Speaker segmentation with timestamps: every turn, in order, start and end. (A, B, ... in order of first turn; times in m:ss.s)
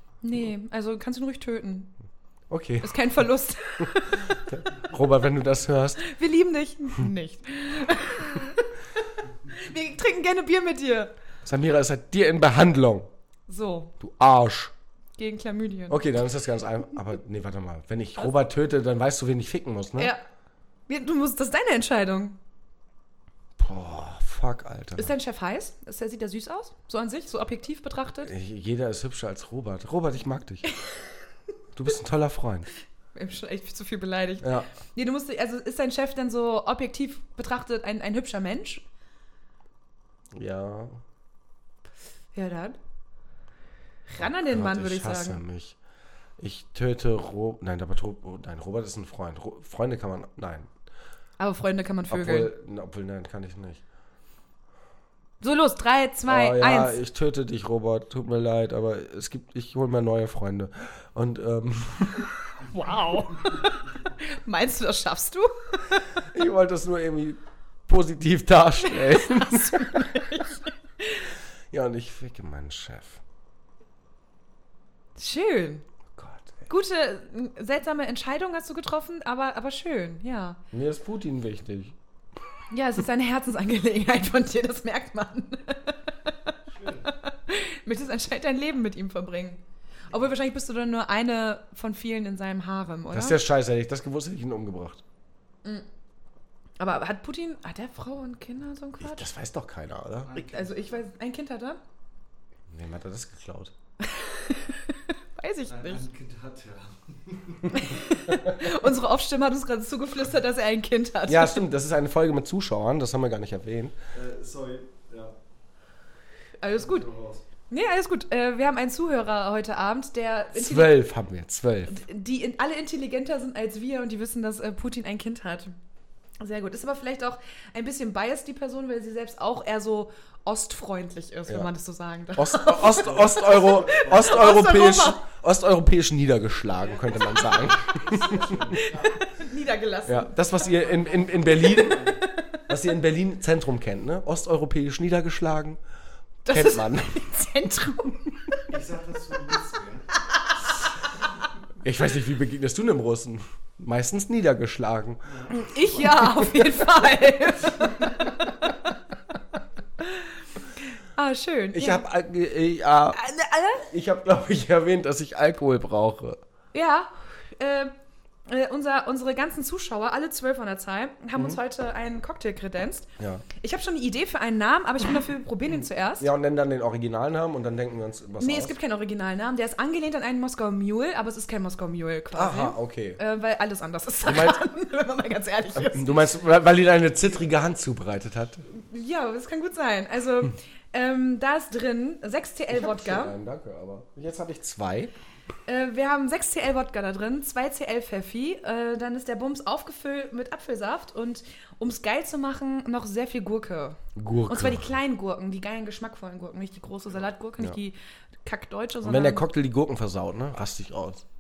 0:00.2-0:01.9 A
0:02.5-0:03.0 B
0:02.8-0:04.4 A
0:04.5-0:06.0 B
0:06.0-0:11.1 A
0:11.4-0:13.1 B
0:13.5-0:14.0 A
0:14.0-0:14.7 B
0:15.2-0:16.0 A
0:15.9-0:20.1 B
0:20.9-0:22.4 A
0:23.6-0:25.1 B
0:25.0-0:28.3 A
0:28.2-0:30.7 B
0:31.8-0:32.7 B
0:33.2-0:38.8 A
0:34.4-0:34.7 B
0:40.3-0:41.0 B
0:42.4-0:42.8 A
0:44.1-0:45.4 A
0:44.2-0:45.8 B
0:46.4-0:50.7 B
0:51.4-0:52.5 A
0:52.1-0:53.8 B
0:55.4-0:57.0 A
0:56.3-1:02.4 B
1:02.7-1:06.1 A
1:06.3-1:10.2 B
1:08.8-1:11.3 A
1:11.7-1:13.2 B
1:15.2-1:15.9 A
1:16.2-1:16.7 B
1:16.7-1:20.6 A
1:20.7-1:22.0 B
1:22.7-1:33.4 A
1:26.7-1:27.1 C
1:33.1-1:35.0 B
1:36.8-1:39.3 A
1:39.0-1:40.4 B
1:40.3-1:41.1 C
1:40.4-1:41.8 A
1:42.7-1:43.7 B
1:44.0-1:46.0 A
1:45.7-1:48.0 C
1:47.7-1:51.6 A
1:51.3-1:54.0 B
1:54.1-1:55.4 C
1:56.6-1:57.1 A
1:56.7-1:57.4 C
1:57.7-2:01.0 A
2:00.5-2:02.0 B
2:01.9-2:05.7 A
2:06.4-2:15.2 A
2:12.4-2:18.8 B
2:12.8-2:14.4 C
2:16.8-2:19.4 C
2:18.7-2:20.7 A
2:20.1-2:22.2 B
2:20.5-2:22.2 C
2:22.2-2:22.6 A
2:22.7-2:25.8 B
2:26.5-2:28.6 A
2:26.5-2:27.3 B
2:28.7-2:30.2 C
2:31.8-2:35.2 B
2:35.2-2:36.3 C
2:35.5-2:38.9 A
2:36.1-2:36.8 B
2:40.0-2:42.0 A
2:41.7-2:43.2 B
2:43.1-2:43.9 A
2:43.9-2:46.4 B
2:46.7-2:47.9 A
2:48.5-2:56.3 A
2:53.2-2:53.4 B
2:56.2-2:58.8 B
2:58.4-3:06.2 A
3:02.3-3:03.2 B
3:04.2-3:04.6 B
3:05.8-3:08.6 B
3:08.7-3:13.4 A
3:12.7-3:15.1 B
3:15.7-3:29.5 A
3:24.2-3:24.9 B
3:29.0-3:31.2 B